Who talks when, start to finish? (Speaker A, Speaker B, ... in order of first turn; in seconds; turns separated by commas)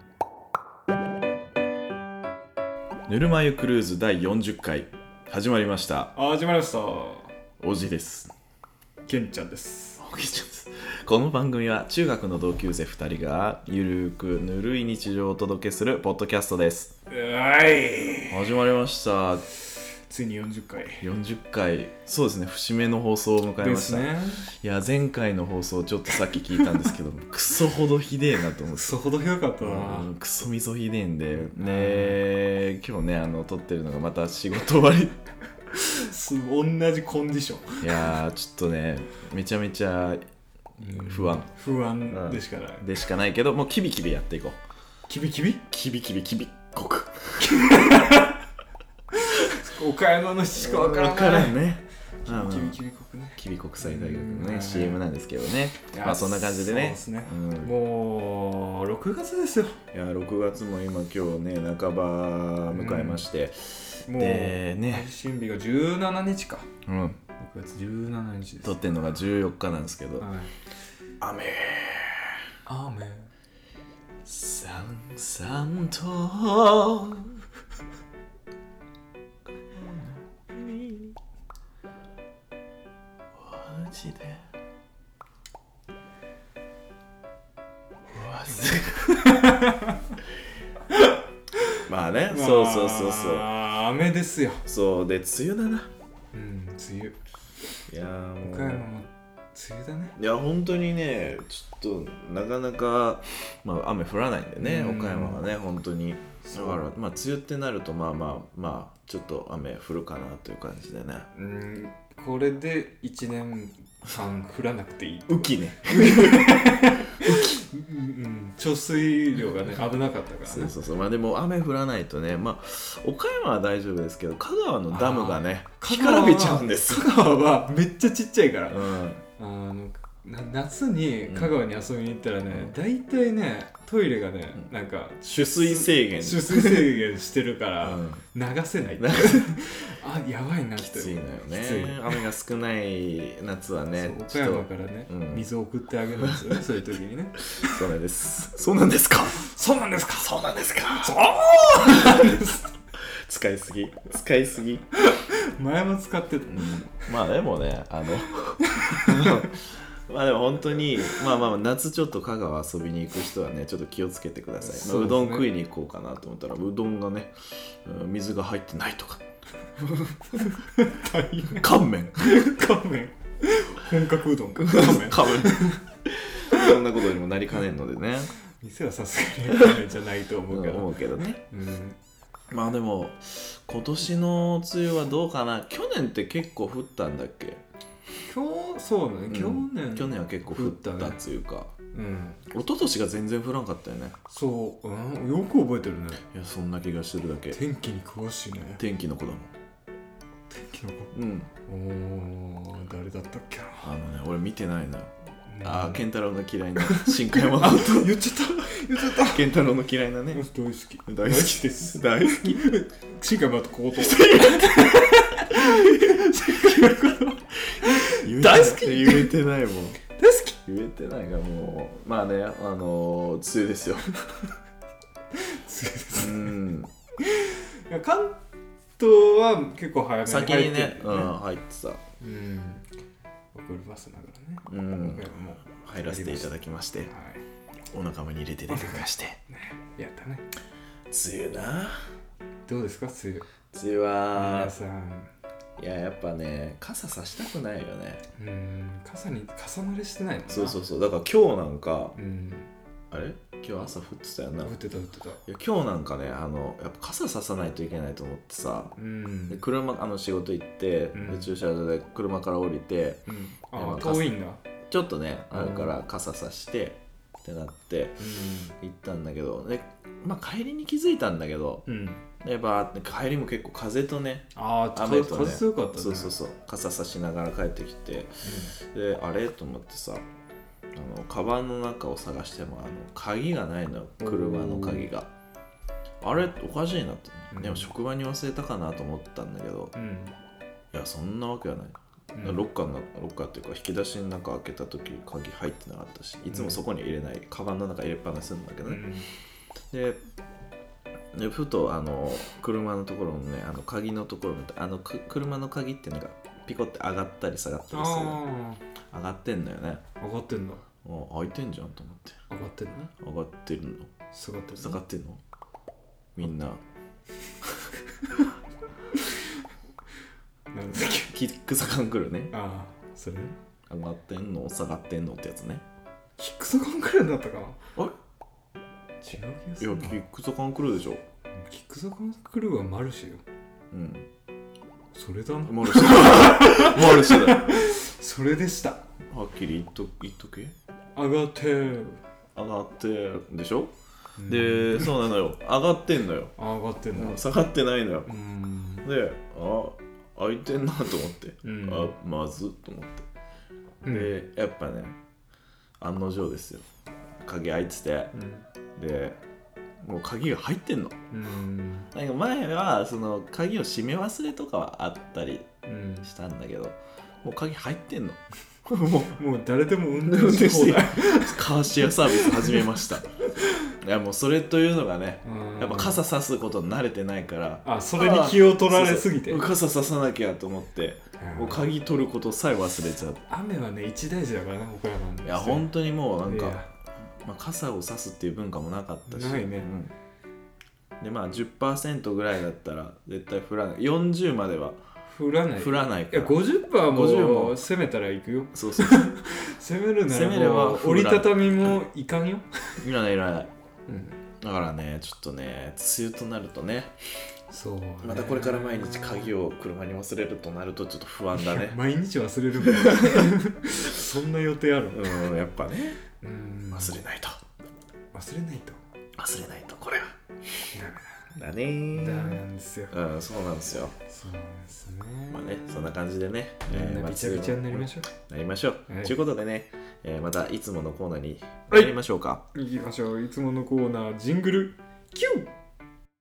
Speaker A: 3.1-6.1, Speaker B: 6.2-7.3, Speaker A: 7.6-8.3, Speaker B: 9.1-10.0, Speaker A: 10.0-16.9, Speaker B: 17.1-18.5, Speaker A: 18.3-19.4, Speaker B: 19.7-21.1, Speaker A: 21.0-29.0, Speaker B: 23.6-24.5, Speaker B: 28.7-30.1, Speaker A: 29.6-35.2, Speaker B: 31.3-32.2, Speaker B: 35.8-38.1, Speaker A: 37.8-40.2, Speaker B: 40.8-42.9, Speaker A: 40.8-41.5, Speaker A: 42.1-44.6, Speaker B: 45.1-45.7, Speaker A: 45.7-47.8, Speaker B: 47.4-48.4, Speaker B: 49.1-51.6, Speaker A: 50.5-52.8, Speaker B: 52.2-55.0, Speaker A: 53.4-57.7, Speaker B: 55.8-59.8, Speaker A: 59.9-65.1, Speaker B: 62.7-63.2, Speaker B: 64.1-66.7, Speaker A: 66.9-67.2, Speaker B: 67.4-68.8, Speaker A: 68.6-70.3, Speaker B: 70.2-70.5, Speaker A: 71.2-72.4, Speaker B: 72.7-73.3, Speaker A: 74.2-77.4, Speaker A: 79.7-81.2, Speaker A: 83.4-84.4, Speaker A: 88.1-89.4, Speaker B: 88.5-90.0, Speaker B: 90.9-91.8, Speaker A: 91.9-93.5, Speaker B: 92.3-94.7, Speaker A: 94.7-95.9, Speaker B: 96.3-97.2, Speaker A: 97.9-98.9, Speaker B: 98.4-100.2, Speaker A: 100.2-111.3, Speaker B: 104.6-105.4, Speaker B: 106.4-106.8, Speaker B: 111.3-120.8, Speaker A: 115.3-117.5, Speaker A: 120.5-127.1, Speaker B: 124.9-142.2, Speaker A: 128.7-129.2, Speaker A: 131.2-131.6, Speaker A: 135.2-137.0, Speaker A: 137.8-138.2, Speaker A: 139.0-139.6, Speaker A: 140.8-145.5, Speaker B: 143.9-147.8, Speaker A: 146.2-146.6, Speaker A: 147.5-149.5, Speaker B: 149.4-152.7, Speaker A: 150.6-151.2, Speaker A: 151.8-154.9, Speaker B: 155.0-156.9, Speaker A: 156.5-169.2, Speaker B: 158.6-159.5, Speaker B: 164.6-165.5, Speaker A: 169.8-170.4, Speaker B: 170.3-175.8, Speaker A: 171.5-172.6, Speaker A: 174.6-178.3, Speaker B: 178.6-182.0, Speaker A: 180.5-181.4, Speaker A: 182.5-187.6, Speaker B: 188.2-191.2, Speaker A: 189.3-191.7, Speaker B: 191.9-192.4, Speaker A: 192.5-194.2, Speaker B: 194.3-196.2, Speaker A: 196.3-197.6, Speaker B: 197.5-198.8, Speaker A: 198.8-199.5, Speaker B: 200.5-201.1, Speaker A: 201.1-201.5, Speaker B: 201.7-203.9, Speaker A: 203.8-205.1, Speaker B: 205.5-206.0, Speaker A: 205.6-208.2, Speaker B: 206.8-209.5, Speaker A: 208.9-210.4, Speaker B: 210.3-219.3, Speaker A: 211.1-212.7, Speaker A: 213.9-215.0, Speaker A: 215.5-216.3, Speaker A: 218.1-220.0, Speaker B: 220.1-220.6, Speaker A: 220.7-224.2, Speaker B: 225.3-226.6, Speaker A: 226.2-226.9, Speaker B: 227.2-228.4, Speaker B: 229.0-231.3, Speaker A: 230.3-232.0, Speaker B: 232.2-232.9, Speaker B: 233.5-236.5, Speaker A: 234.7-237.1, Speaker B: 237.0-237.4, Speaker A: 237.9-239.4, Speaker B: 238.7-240.4, Speaker A: 241.1-242.0, Speaker B: 242.7-243.5, Speaker A: 243.7-244.8, Speaker B: 244.3-245.3, Speaker A: 245.8-248.2, Speaker B: 248.4-250.8, Speaker A: 250.5-252.2, Speaker B: 252.2-252.7, Speaker A: 253.1-254.7, Speaker B: 254.6-255.4, Speaker A: 255.5-258.9, Speaker B: 259.0-259.6, Speaker A: 259.5-263.2, Speaker B: 261.1-261.5, Speaker B: 263.3-264.6, Speaker A: 263.8-264.3, Speaker A: 264.9-271.9, Speaker B: 265.5-265.9, Speaker B: 268.2-268.8, Speaker B: 271.9-272.2, Speaker A: 272.4-280.3, Speaker B: 274.6-276.3, Speaker B: 278.4-278.7, Speaker A: 280.9-285.3, Speaker B: 284.2-285.1, Speaker A: 286.2-289.9, Speaker B: 287.5-287.9, Speaker B: 289.9-290.4, Speaker A: 290.9-299.1, Speaker B: 292.4-292.6, Speaker B: 296.5-296.8, Speaker B: 298.9-299.3, Speaker A: 299.9-300.2, Speaker A: 301.3-308.4, Speaker B: 307.9-308.8, Speaker A: 309.1-310.0, Speaker B: 310.2-310.8, Speaker A: 311.0-312.4, Speaker B: 312.5-313.1, Speaker A: 313.2-314.1, Speaker B: 314.3-315.0, Speaker A: 314.8-315.4, Speaker A: 316.4-316.8, Speaker B: 318.2-318.5, Speaker B: 319.1-319.6, Speaker B: 320.7-321.3, Speaker A: 321.0-322.5, Speaker B: 322.5-323.6, Speaker A: 323.9-325.8, Speaker B: 326.4-327.8, Speaker B: 329.2-330.2, Speaker A: 329.8-331.2, Speaker B: 331.5-333.4, Speaker A: 333.9-334.3, Speaker B: 335.1-339.1, Speaker A: 335.6-337.7, Speaker A: 339.3-340.8, Speaker B: 341.2-342.2, Speaker A: 342.6-343.9, Speaker B: 344.4-345.1, Speaker A: 344.5-346.5, Speaker B: 346.6-347.4, Speaker A: 347.1-348.3, Speaker B: 348.3-349.1, Speaker A: 349.0-353.3, Speaker B: 351.6-352.1, Speaker B: 354.0-354.3, Speaker A: 354.1-355.2, Speaker A: 356.0-356.9, Speaker A: 357.4-358.3, Speaker B: 358.3-358.7, Speaker A: 359.0-359.4, Speaker A: 360.0-361.2, Speaker B: 361.3-362.1, Speaker A: 362.1-365.7, Speaker B: 365.9-366.3, Speaker A: 366.2-369.4, Speaker B: 369.4-372.9, Speaker A: 370.2-383.4, Speaker B: 375.4-376.2, Speaker B: 377.9-379.6, Speaker B: 381.4-381.9, Speaker B: 383.5-385.9, Speaker A: 385.4-386.8, Speaker B: 386.4-386.9, Speaker A: 387.4-390.1, Speaker B: 389.3-389.9, Speaker A: 391.2-395.0, Speaker B: 395.3-403.0, Speaker A: 395.8-397.8, Speaker A: 398.7-399.4, Speaker A: 400.3-401.6, Speaker A: 403.0-403.7, Speaker B: 404.1-404.4, Speaker A: 404.6-407.1, Speaker B: 407.7-409.5, Speaker A: 408.2-412.0, Speaker B: 411.6-415.4, Speaker A: 412.8-413.6, Speaker A: 415.1-416.2, Speaker B: 416.4-417.2, Speaker A: 416.9-417.6, Speaker B: 418.3-419.0, Speaker A: 419.4-420.4, Speaker B: 420.9-421.6, Speaker A: 421.6-424.1, Speaker B: 422.1-423.1, Speaker B: 424.3-426.1, Speaker A: 425.5-432.6, Speaker B: 426.9-428.3, Speaker B: 429.1-429.4, Speaker B: 432.7-435.7